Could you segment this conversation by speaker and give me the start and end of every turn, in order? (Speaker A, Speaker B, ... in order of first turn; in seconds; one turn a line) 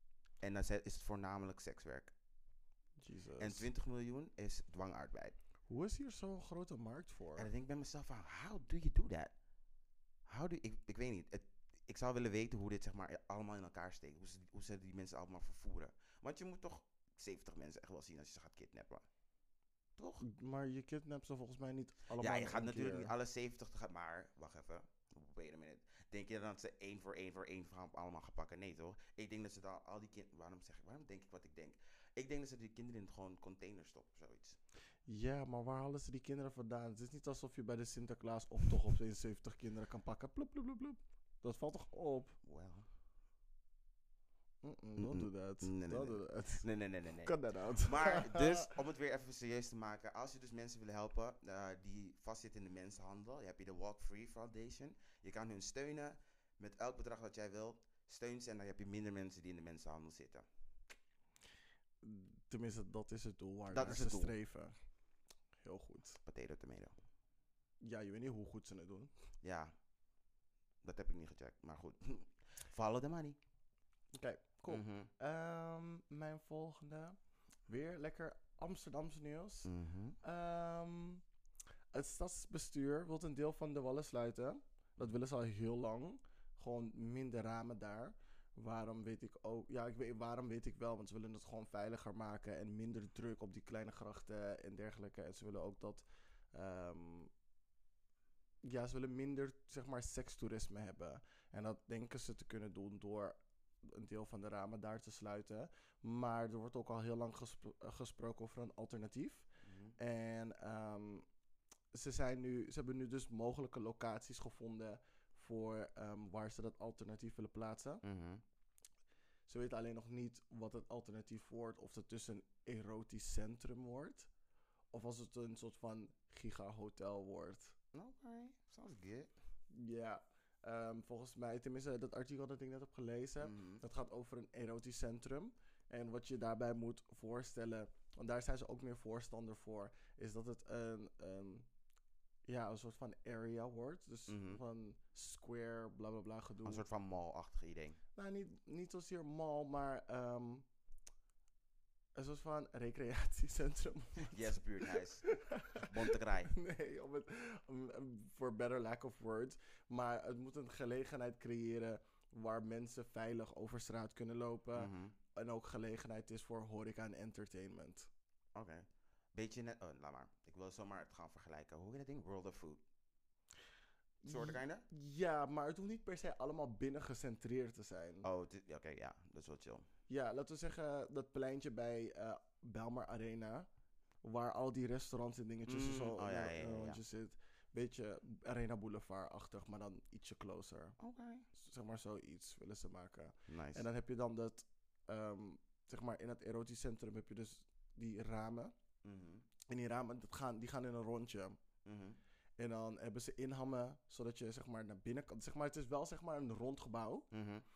Speaker A: 0.4-2.1
Speaker B: 3.0-3.7
Speaker A: 3.4-5.4
Speaker B: 5.7-7.5
Speaker A: 7.4-9.3
Speaker A: 10.3-19.1
Speaker A: 20.0-20.2
Speaker B: 20.2-23.1
Speaker A: 22.2-34.6
Speaker B: 35.1-42.4
Speaker A: 42.4-42.9
Speaker B: 44.6-46.7
Speaker A: 45.0-60.5
Speaker B: 47.2-48.7
Speaker B: 62.0-64.8
Speaker A: 63.7-64.4
Speaker B: 65.6-66.2
Speaker A: 66.2-67.0
Speaker B: 67.8-69.1
Speaker A: 69.4-69.7
Speaker A: 70.8-73.4
Speaker B: 74.1-77.2
Speaker A: 74.7-75.1
Speaker B: 77.7-81.2
Speaker A: 79.6-80.2
Speaker B: 81.9-97.3
Speaker B: 98.6-111.3
Speaker A: 109.6-110.0
Speaker B: 111.9-118.0
Speaker A: 118.0-118.4
Speaker B: 119.5-124.3
Speaker B: 124.9-127.8
Speaker A: 127.9-129.3
Speaker B: 129.7-141.7
Speaker A: 133.4-133.8
Speaker B: 142.5-146.8
Speaker A: 144.3-144.6
Speaker A: 146.7-148.0
Speaker B: 148.2-150.7
Speaker B: 152.2-168.1
Speaker A: 154.2-156.6
Speaker A: 164.8-165.2
Speaker A: 168.6-172.8
Speaker B: 174.2-178.3
Speaker A: 174.3-174.9
Speaker A: 178.2-179.9
Speaker B: 180.1-183.7
Speaker B: 184.2-191.0
Speaker A: 185.7-187.0
Speaker A: 191.0-191.5
Speaker B: 191.5-198.7
Speaker A: 193.5-193.9
Speaker A: 199.0-199.5
Speaker B: 199.7-201.6
Speaker A: 201.8-202.2
Speaker B: 202.6-207.3
Speaker A: 207.3-207.7